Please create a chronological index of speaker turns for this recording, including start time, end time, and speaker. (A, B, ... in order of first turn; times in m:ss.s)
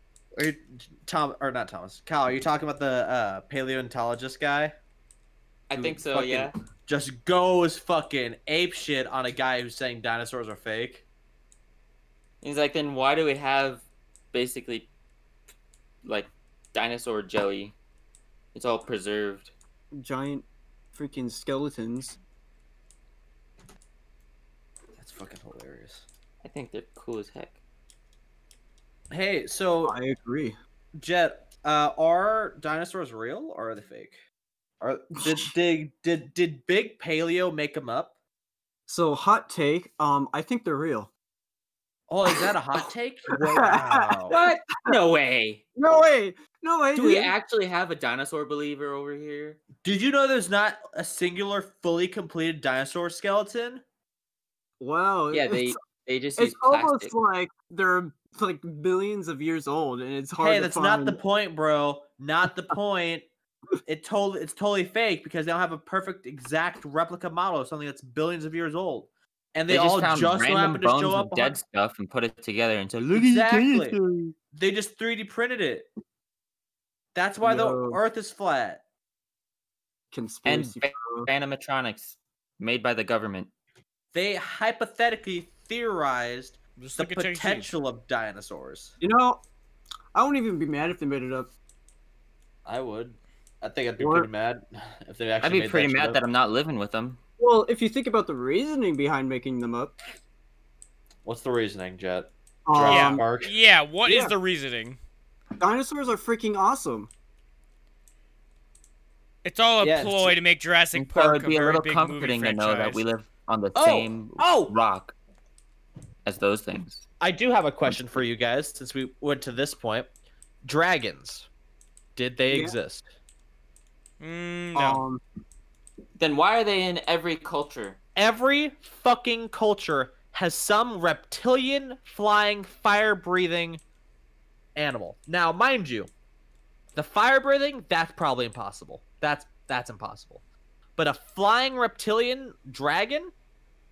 0:00.4-0:04.7 A
0:05.7-0:06.5 B
0:05.7-0:11.0 A
0:12.4-0:14.9 B
0:16.0-0:17.8 B
0:18.5-0:19.5 B
0:19.9-0:22.2 C
0:25.0-0:26.0 A
0:26.4-0:27.6 B
0:29.1-0:30.0 A
0:29.8-0:30.6 C
0:31.0-0:34.2 A
0:34.8-0:38.1 A
0:38.9-0:41.1 C
0:42.1-0:44.3 A
0:42.2-0:42.9 C
0:43.4-0:44.9 C
0:44.3-0:45.6 B
0:45.8-0:47.3 C
0:46.9-0:49.6 B
0:49.8-0:53.8 A
0:54.8-0:55.8 C
0:55.3-0:57.1 B
0:56.4-1:01.2 C
1:00.4-1:03.2 A
1:03.8-1:11.6 A
1:09.7-1:14.3 B
1:13.1-1:14.0 A
1:14.5-1:15.8 A
1:17.1-1:18.8 A
1:17.4-1:18.0 C
1:20.1-1:21.3 C
1:20.4-1:23.5 B
1:24.1-1:29.0 A
1:26.8-1:27.7 D
1:29.0-1:29.4 C
1:30.1-1:31.5 C
1:32.6-1:36.2 A
1:34.0-1:34.3 C
1:35.4-1:37.2 B
1:37.4-1:40.0 C
1:41.2-1:43.5 A
1:42.6-1:43.2 C
1:42.8-1:45.0 D
1:44.0-1:44.3 C
1:45.6-1:47.1 C
1:49.4-1:53.0 D
1:49.8-1:50.4 A
1:50.9-1:55.1 B
1:53.7-1:54.7 A
1:56.2-1:57.0 B
1:57.2-2:00.1 A
2:00.6-2:01.5 A
2:02.2-2:03.0 A
2:02.5-2:02.8 C
2:04.2-2:05.0 D
2:04.7-2:05.2 C
2:06.2-2:08.0 B
2:08.2-2:13.8 A
2:14.8-2:16.1 A
2:16.9-2:20.4 A
2:21.0-2:23.3 A